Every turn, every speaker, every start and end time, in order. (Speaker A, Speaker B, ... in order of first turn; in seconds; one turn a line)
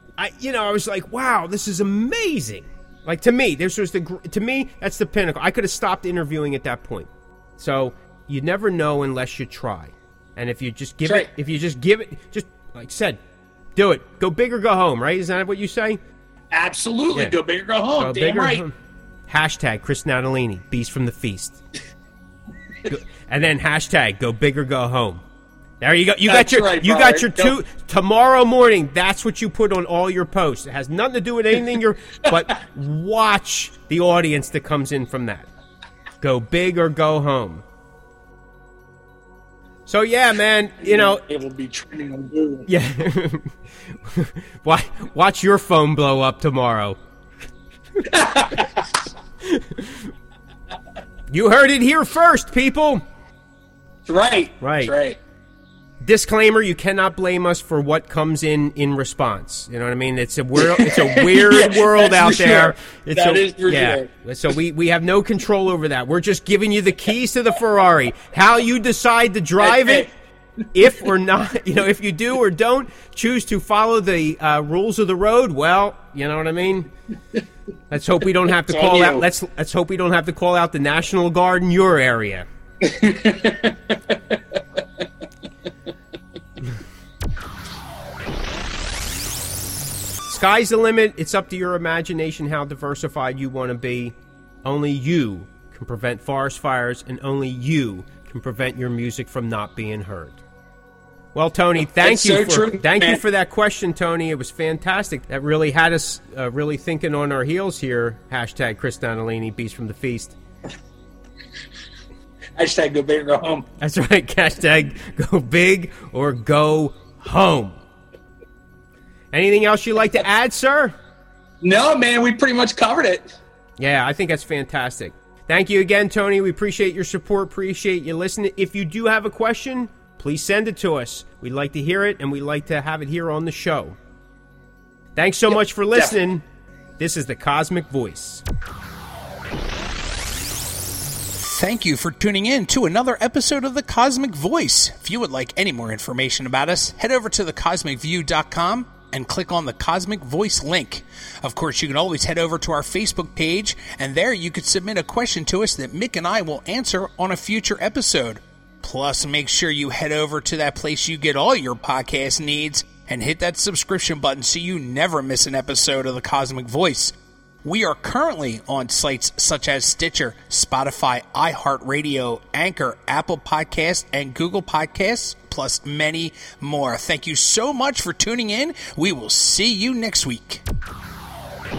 Speaker A: 0.2-13.2
Speaker B: 11.1-11.3
Speaker A: 13.8-16.0
Speaker B: 16.5-18.6
Speaker A: 18.0-18.8
Speaker A: 19.3-21.6
Speaker A: 22.9-25.2
Speaker A: 25.8-35.5
Speaker B: 26.3-27.6
Speaker A: 36.2-37.6
Speaker A: 39.9-41.2
Speaker B: 40.8-42.7
Speaker A: 42.7-47.0
Speaker B: 48.1-48.9
Speaker A: 49.4-50.1
Speaker A: 51.3-53.0
Speaker B: 54.0-55.2
Speaker A: 54.6-55.0
Speaker A: 56.0-70.1
Speaker B: 60.6-64.1
Speaker B: 69.6-70.1
Speaker A: 70.7-76.9
Speaker A: 77.9-82.5
Speaker B: 78.6-79.3
Speaker B: 82.8-85.0
Speaker A: 90.3-100.4
Speaker A: 101.3-110.4
Speaker B: 101.9-103.2
Speaker B: 112.6-113.7
Speaker A: 113.8-117.8
Speaker A: 119.3-120.9
Speaker B: 121.6-123.3
Speaker A: 123.8-134.0
Speaker A: 135.2-136.4
Speaker B: 135.5-136.2
Speaker A: 137.0-138.4
Speaker C: 141.4-180.6